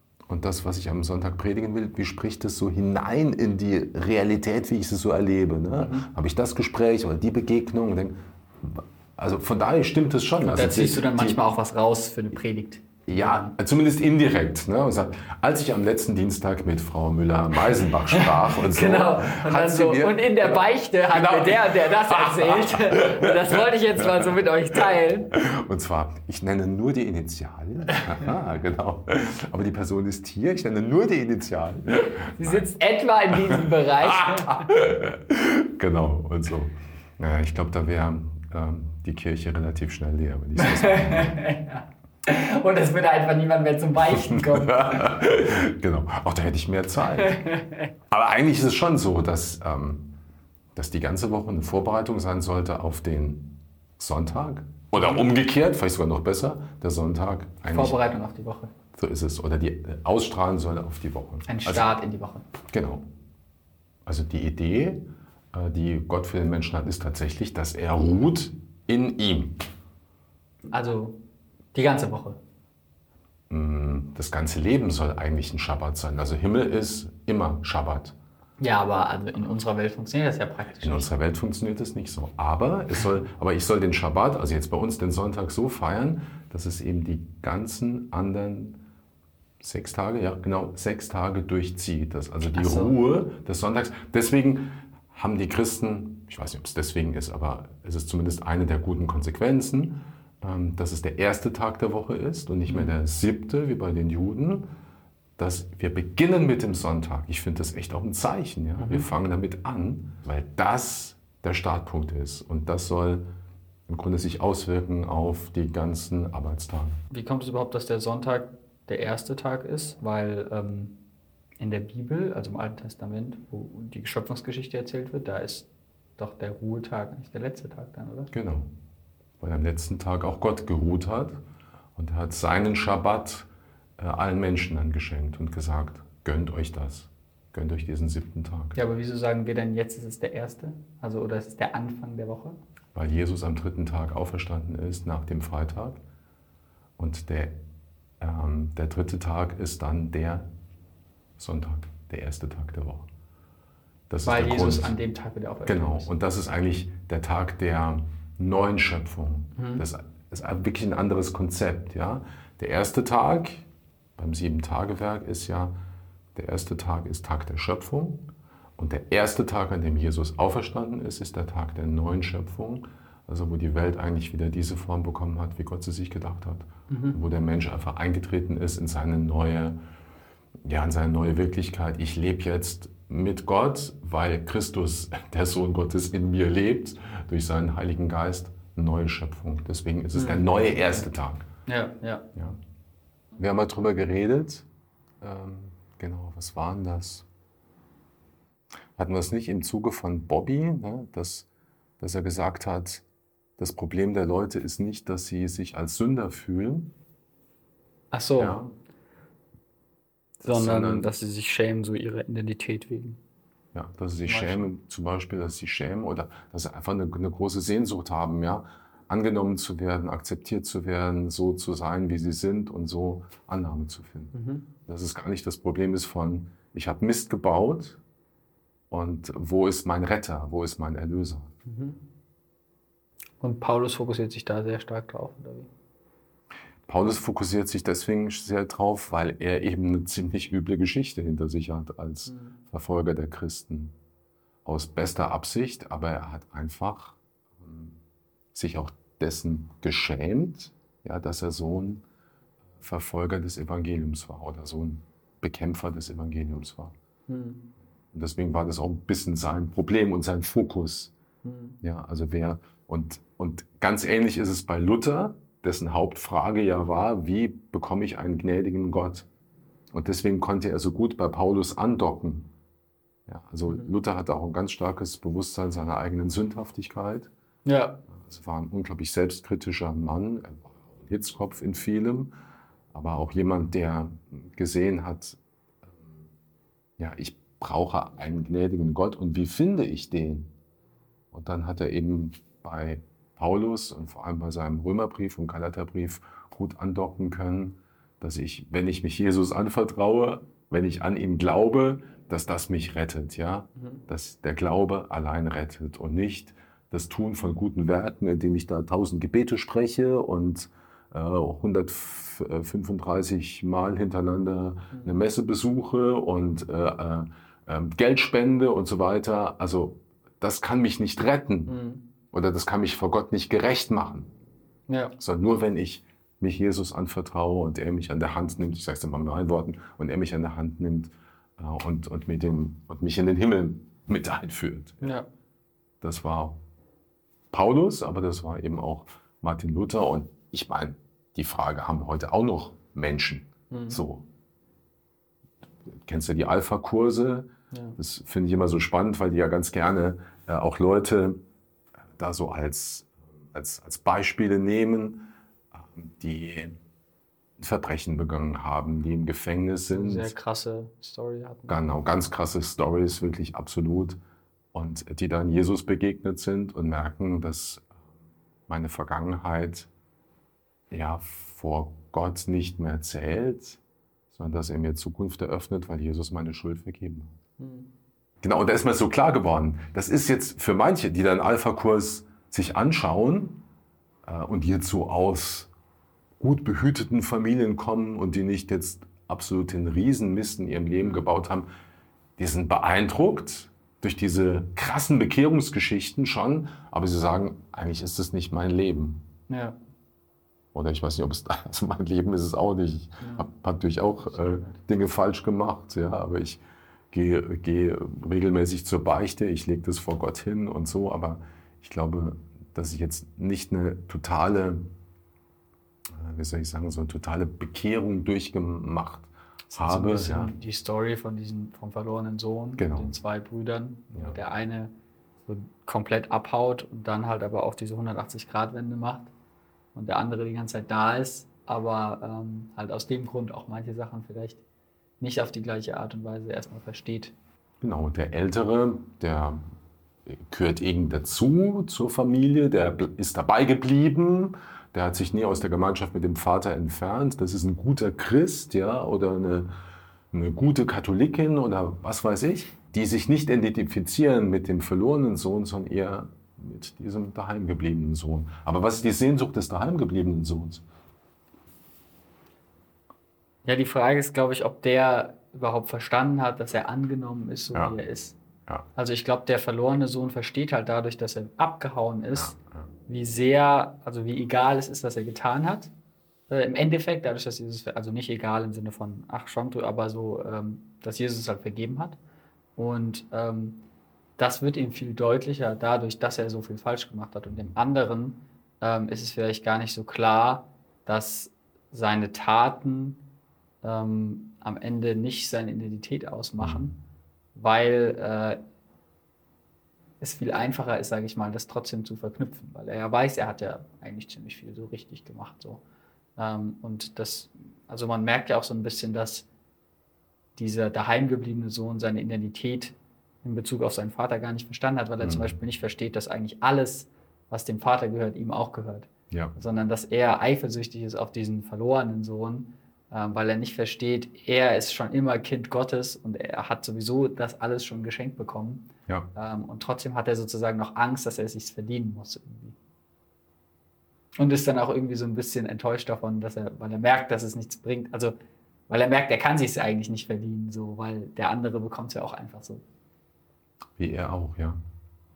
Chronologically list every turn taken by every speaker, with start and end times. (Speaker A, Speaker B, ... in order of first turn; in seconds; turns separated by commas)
Speaker A: 0.3-11.4, Speaker B: 5.8-6.1, Speaker B: 10.4-13.5, Speaker A: 13.1-24.8, Speaker B: 18.1-25.3, Speaker A: 25.3-32.6, Speaker B: 32.4-34.7, Speaker A: 33.5-41.4, Speaker B: 40.5-45.0, Speaker A: 44.1-47.5, Speaker B: 47.2-47.9, Speaker A: 48.1-50.1, Speaker A: 50.8-58.0, Speaker B: 55.0-55.2, Speaker B: 57.7-58.7, Speaker A: 58.9-61.9, Speaker B: 61.5-62.5, Speaker A: 62.7-63.0, Speaker A: 64.0-69.6, Speaker B: 70.7-71.2, Speaker B: 71.7-72.4, Speaker A: 73.5-78.1, Speaker B: 78.6-81.1, Speaker A: 80.8-88.8, Speaker A: 89.6-104.7, Speaker B: 92.5-93.0, Speaker B: 102.7-102.9, Speaker A: 105.4-113.3, Speaker B: 108.8-109.1, Speaker A: 113.9-117.0, Speaker B: 117.1-121.0, Speaker B: 121.6-125.7, Speaker B: 126.2-128.3, Speaker A: 128.3-128.7, Speaker A: 129.4-131.4, Speaker A: 131.9-138.8, Speaker B: 138.8-142.6, Speaker A: 142.9-146.0, Speaker A: 147.0-147.6, Speaker A: 148.2-150.5, Speaker A: 151.4-153.1, Speaker A: 154.1-154.9, Speaker B: 154.2-156.1, Speaker A: 155.7-163.6, Speaker B: 159.6-159.8, Speaker A: 164.2-165.7, Speaker A: 166.3-168.2, Speaker A: 168.8-179.8, Speaker B: 176.9-177.2, Speaker A: 180.6-191.4, Speaker B: 190.1-190.6, Speaker B: 191.7-192.3, Speaker A: 193.4-194.7, Speaker A: 195.2-197.3, Speaker A: 199.0-201.5, Speaker A: 202.0-203.0, Speaker A: 203.6-206.9, Speaker B: 208.1-208.6, Speaker A: 208.4-208.7, Speaker B: 210.4-213.2, Speaker A: 210.4-211.1, Speaker A: 213.7-224.3, Speaker B: 214.2-214.7, Speaker B: 224.3-224.6, Speaker A: 224.8-228.0, Speaker A: 228.9-231.5, Speaker B: 231.7-232.0, Speaker B: 233.4-235.7, Speaker A: 236.9-243.9, Speaker B: 242.2-242.6, Speaker A: 244.6-248.0, Speaker A: 248.5-252.0, Speaker A: 252.8-256.9, Speaker B: 257.3-257.7, Speaker A: 258.1-261.1, Speaker B: 261.4-261.8, Speaker A: 261.8-269.3, Speaker A: 269.9-272.5, Speaker A: 273.3-277.3, Speaker B: 277.6-278.0, Speaker A: 278.1-282.3, Speaker A: 282.9-285.4, Speaker A: 287.0-290.5, Speaker A: 291.3-321.8, Speaker B: 321.7-322.0, Speaker A: 322.3-324.3, Speaker B: 324.9-325.1, Speaker A: 325.2-335.1, Speaker B: 335.0-335.3, Speaker A: 336.0-336.6, Speaker A: 337.5-344.2, Speaker B: 343.7-344.0, Speaker A: 346.1-351.4, Speaker B: 347.7-348.0, Speaker A: 352.2-356.8, Speaker A: 357.6-360.3, Speaker B: 359.9-361.8, Speaker A: 361.7-364.2, Speaker A: 364.7-367.9, Speaker A: 368.7-369.9, Speaker A: 370.9-373.8, Speaker A: 374.3-377.4, Speaker B: 377.6-377.9, Speaker A: 378.4-383.6, Speaker A: 384.2-385.7, Speaker A: 386.4-391.7, Speaker A: 392.4-399.2, Speaker B: 399.5-399.8, Speaker A: 400.7-406.6, Speaker B: 403.2-403.5, Speaker B: 404.2-404.8, Speaker A: 407.1-414.9, Speaker A: 416.1-420.5, Speaker B: 419.7-424.9, Speaker A: 422.8-423.1, Speaker B: 425.5-429.3, Speaker B: 429.9-434.6, Speaker B: 435.2-437.3, Speaker A: 437.8-439.6, Speaker A: 440.2-449.7, Speaker A: 450.3-460.8, Speaker B: 463.6-468.4, Speaker B: 468.9-472.6, Speaker A: 472.4-472.8, Speaker B: 473.1-475.9, Speaker B: 476.5-482.2, Speaker B: 482.8-483.8, Speaker B: 484.4-493.2, Speaker B: 493.8-496.9, Speaker A: 496.6-496.9, Speaker B: 497.6-498.6, Speaker B: 500.2-505.8, Speaker B: 506.4-509.5, Speaker B: 510.6-532.8, Speaker A: 515.2-515.5, Speaker B: 534.4-538.4, Speaker B: 538.9-542.8, Speaker A: 544.0-544.8